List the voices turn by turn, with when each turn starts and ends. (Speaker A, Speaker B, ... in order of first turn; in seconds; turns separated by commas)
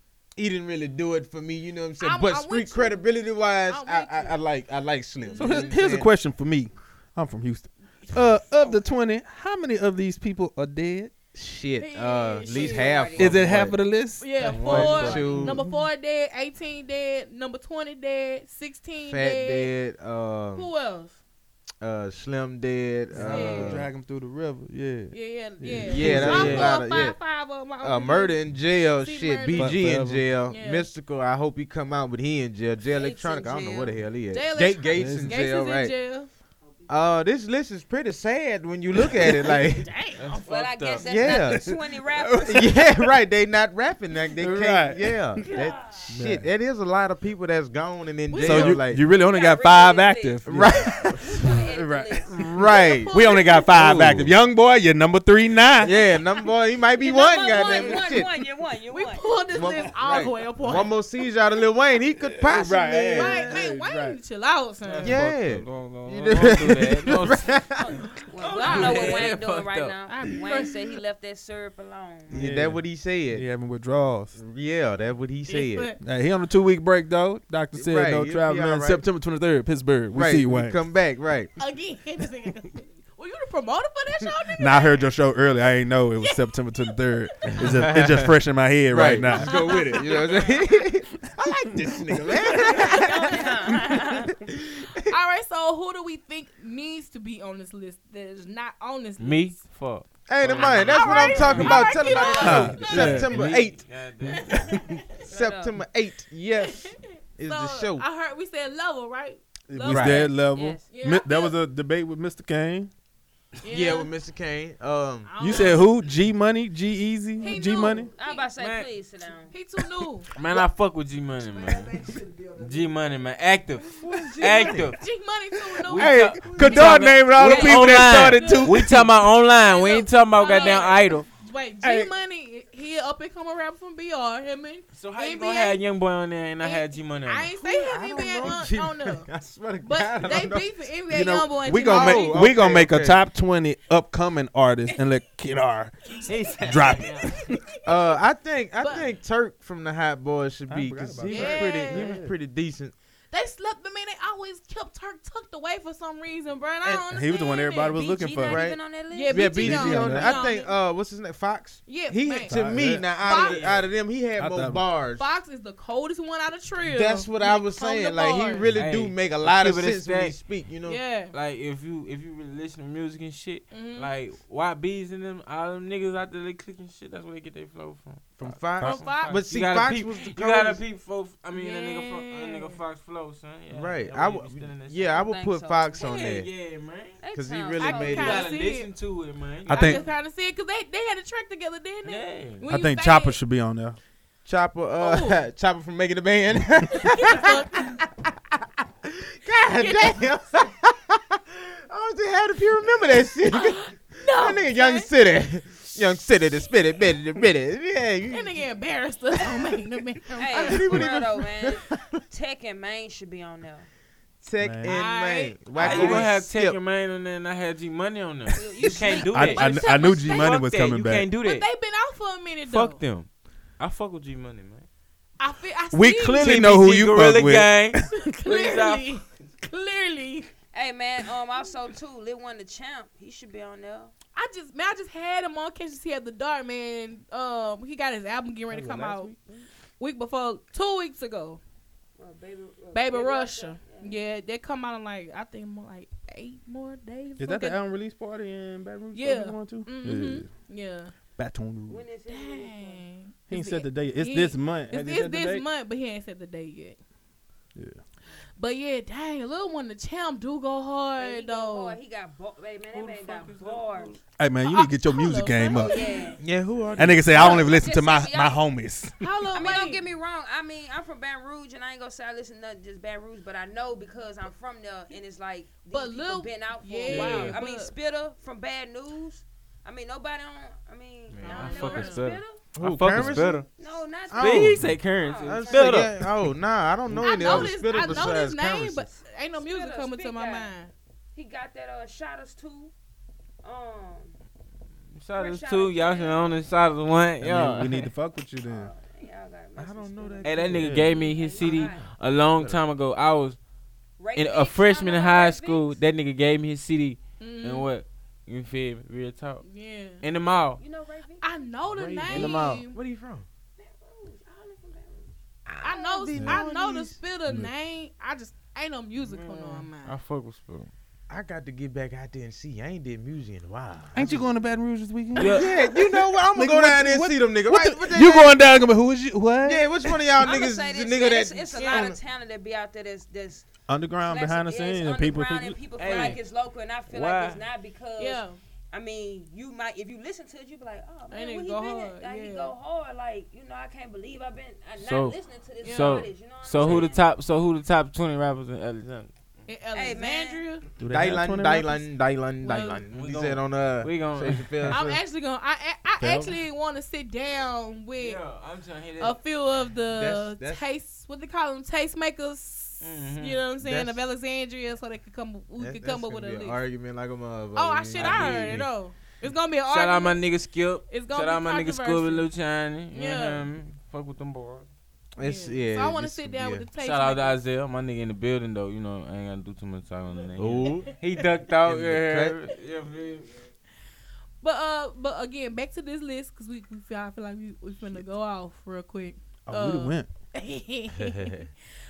Speaker A: 0.4-6.1, Speaker B: 2.0-3.0, Speaker B: 3.7-4.4, Speaker C: 5.2-5.7, Speaker D: 5.4-11.2, Speaker B: 8.0-8.8, Speaker A: 11.3-13.8, Speaker B: 11.8-13.1, Speaker C: 12.4-13.4, Speaker D: 13.2-15.9, Speaker B: 14.2-19.7, Speaker E: 14.4-15.5, Speaker A: 14.6-15.6, Speaker A: 19.1-20.7, Speaker B: 20.6-21.2, Speaker A: 21.8-23.9, Speaker D: 23.1-26.8, Speaker B: 23.3-23.8, Speaker B: 25.1-28.4, Speaker A: 25.9-27.2, Speaker E: 26.0-26.8, Speaker A: 27.8-36.0, Speaker B: 29.0-29.8, Speaker D: 29.6-30.2, Speaker B: 30.5-30.9, Speaker C: 32.9-34.0, Speaker B: 34.3-36.3, Speaker D: 35.0-35.4, Speaker A: 36.9-39.9, Speaker B: 39.8-40.3, Speaker E: 40.2-41.5, Speaker C: 40.4-43.1, Speaker A: 41.0-49.0, Speaker D: 44.4-45.4, Speaker C: 45.5-46.1, Speaker D: 46.1-46.5, Speaker B: 48.3-48.8, Speaker D: 48.4-52.5, Speaker C: 49.1-52.5, Speaker A: 50.5-51.5, Speaker A: 52.3-54.3, Speaker B: 52.6-53.8, Speaker D: 53.1-55.9, Speaker A: 55.8-58.3, Speaker C: 57.0-59.4, Speaker B: 57.4-58.2, Speaker B: 58.9-61.0, Speaker A: 59.5-63.6, Speaker D: 62.5-64.2, Speaker B: 63.1-65.2, Speaker E: 64.9-67.5, Speaker A: 65.0-68.0, Speaker C: 67.8-72.4, Speaker E: 68.4-70.0, Speaker B: 68.6-69.2, Speaker B: 70.1-70.7, Speaker A: 72.3-73.5, Speaker D: 72.3-74.4, Speaker A: 74.3-75.9, Speaker B: 75.5-76.0, Speaker D: 76.0-80.8, Speaker A: 77.8-79.0, Speaker A: 80.1-81.5, Speaker B: 81.6-85.1, Speaker D: 84.6-89.7, Speaker A: 87.6-88.4, Speaker A: 88.9-95.0, Speaker B: 89.2-90.6, Speaker C: 89.9-90.7, Speaker B: 91.4-94.3, Speaker C: 92.6-94.3, Speaker B: 94.9-99.5, Speaker E: 99.2-100.9, Speaker A: 100.3-103.9, Speaker C: 100.5-102.7, Speaker B: 100.8-103.2, Speaker E: 101.5-101.8, Speaker D: 102.4-103.5, Speaker E: 102.5-104.6, Speaker B: 104.2-105.3, Speaker D: 104.5-105.0, Speaker C: 105.3-105.8, Speaker A: 105.3-108.0, Speaker B: 106.6-110.4, Speaker D: 109.7-112.9, Speaker A: 109.9-110.3, Speaker C: 110.5-110.9, Speaker B: 110.9-111.6, Speaker B: 113.6-114.1, Speaker A: 113.7-115.7, Speaker B: 115.3-115.9, Speaker D: 115.4-118.1, Speaker B: 117.4-118.4, Speaker C: 117.4-119.5, Speaker E: 118.6-118.9, Speaker B: 119.5-120.3, Speaker E: 120.3-125.0, Speaker B: 121.5-122.7, Speaker A: 124.0-125.0, Speaker B: 124.4-126.1, Speaker E: 125.9-131.3, Speaker A: 125.9-128.7, Speaker D: 126.0-129.1, Speaker C: 127.4-128.0, Speaker B: 128.1-128.9, Speaker B: 129.5-135.8, Speaker C: 130.6-130.9, Speaker A: 131.8-132.1, Speaker E: 134.9-137.5, Speaker B: 136.6-139.3, Speaker A: 137.6-140.7, Speaker B: 139.8-142.4, Speaker D: 141.1-147.6, Speaker A: 141.8-143.2, Speaker E: 146.3-147.4, Speaker A: 147.8-152.9, Speaker B: 148.8-149.1, Speaker D: 150.7-152.3, Speaker B: 151.3-152.2, Speaker B: 153.3-158.0, Speaker D: 157.1-158.6, Speaker C: 157.8-159.6, Speaker A: 158.4-158.8, Speaker B: 159.1-160.7, Speaker A: 159.3-165.4, Speaker D: 159.6-160.4, Speaker B: 161.9-162.6, Speaker D: 162.5-163.2, Speaker B: 163.2-163.7, Speaker E: 163.2-163.9, Speaker D: 164.4-164.8, Speaker B: 165.2-168.7, Speaker A: 166.8-171.0, Speaker E: 168.7-170.4, Speaker B: 170.9-171.3, Speaker E: 171.3-185.2, Speaker B: 173.7-174.1, Speaker A: 178.4-180.8, Speaker B: 178.8-179.4, Speaker B: 181.5-182.8, Speaker A: 183.7-186.5, Speaker C: 185.1-186.1, Speaker E: 185.9-187.2, Speaker C: 187.2-188.5, Speaker A: 187.3-188.5, Speaker B: 187.8-188.9, Speaker E: 188.0-190.0, Speaker D: 189.7-190.0, Speaker B: 189.7-193.4, Speaker E: 192.1-192.7, Speaker D: 192.7-194.0, Speaker A: 194.4-208.6, Speaker B: 195.0-195.4, Speaker B: 197.0-198.0, Speaker B: 199.8-200.2, Speaker B: 203.5-205.1, Speaker B: 208.3-211.1, Speaker A: 209.4-209.8, Speaker C: 210.4-213.9, Speaker A: 210.5-212.2, Speaker A: 214.4-216.8, Speaker D: 214.6-215.0, Speaker B: 214.8-216.3, Speaker E: 215.8-221.7, Speaker C: 218.6-220.1, Speaker B: 219.0-220.6, Speaker D: 219.3-221.3, Speaker B: 221.4-223.0, Speaker E: 222.6-223.3, Speaker E: 223.8-224.8, Speaker B: 225.4-226.5, Speaker D: 225.9-228.2, Speaker A: 226.4-227.4, Speaker E: 226.4-229.3, Speaker B: 228.1-230.5, Speaker C: 230.7-234.1, Speaker B: 234.3-239.3, Speaker D: 238.7-239.7, Speaker B: 240.0-241.6, Speaker C: 242.2-244.2, Speaker B: 242.9-247.8, Speaker D: 247.4-250.5, Speaker B: 249.1-251.1, Speaker D: 251.4-252.0, Speaker C: 251.9-253.1, Speaker B: 252.3-257.0, Speaker D: 253.5-255.7, Speaker D: 257.8-258.0, Speaker B: 258.6-262.0, Speaker C: 261.2-264.2, Speaker E: 262.9-264.2, Speaker D: 264.4-266.0, Speaker B: 264.6-266.4, Speaker C: 265.7-266.4, Speaker A: 266.4-267.8, Speaker D: 266.9-269.2, Speaker C: 267.3-268.6, Speaker B: 269.2-270.0, Speaker C: 269.5-282.6, Speaker B: 275.9-277.9, Speaker E: 277.1-277.5, Speaker D: 277.2-277.5, Speaker E: 281.3-283.7, Speaker B: 281.4-282.3, Speaker A: 282.8-283.6, Speaker C: 283.8-286.0, Speaker A: 284.3-289.1, Speaker E: 284.3-286.3, Speaker B: 287.2-290.9, Speaker C: 289.6-290.7, Speaker C: 291.3-292.9, Speaker C: 293.6-294.4, Speaker E: 295.1-298.1, Speaker C: 295.4-296.7, Speaker D: 297.4-298.9, Speaker C: 298.6-302.1, Speaker A: 299.8-302.0, Speaker E: 300.4-303.6, Speaker D: 300.7-301.1, Speaker C: 304.2-306.0, Speaker E: 304.4-309.6, Speaker B: 307.4-307.9, Speaker B: 309.6-310.2, Speaker E: 310.2-310.8, Speaker C: 310.8-311.4, Speaker B: 311.4-313.0, Speaker A: 311.9-313.4, Speaker E: 312.3-312.8, Speaker C: 313.8-315.4, Speaker A: 315.7-317.2, Speaker B: 315.8-320.2, Speaker E: 319.2-320.9, Speaker A: 321.3-324.5, Speaker D: 324.1-330.3, Speaker E: 325.4-325.7, Speaker A: 325.4-328.6, Speaker A: 329.6-332.2, Speaker C: 330.4-333.7, Speaker B: 331.8-332.1, Speaker D: 333.9-335.8, Speaker C: 334.2-347.2, Speaker E: 336.0-336.4, Speaker E: 337.1-337.6, Speaker B: 338.2-338.6, Speaker B: 341.3-342.7, Speaker E: 345.0-349.3, Speaker B: 345.8-346.3, Speaker B: 349.7-350.9, Speaker C: 349.9-350.6, Speaker D: 351.0-352.0, Speaker A: 351.1-355.2, Speaker B: 352.6-353.0, Speaker E: 353.1-355.0, Speaker B: 354.9-358.4, Speaker D: 356.2-356.6, Speaker E: 358.2-359.4, Speaker B: 359.2-366.8, Speaker A: 360.1-360.8, Speaker E: 363.0-363.7, Speaker A: 363.8-364.2, Speaker A: 365.8-368.8, Speaker B: 367.8-370.4, Speaker E: 368.2-368.9, Speaker E: 369.9-374.9, Speaker B: 371.1-372.5, Speaker B: 373.1-373.7, Speaker A: 375.4-376.9, Speaker B: 375.4-377.6, Speaker E: 377.0-383.6, Speaker A: 380.6-381.1, Speaker A: 381.8-382.6, Speaker B: 384.6-391.6, Speaker D: 389.7-390.3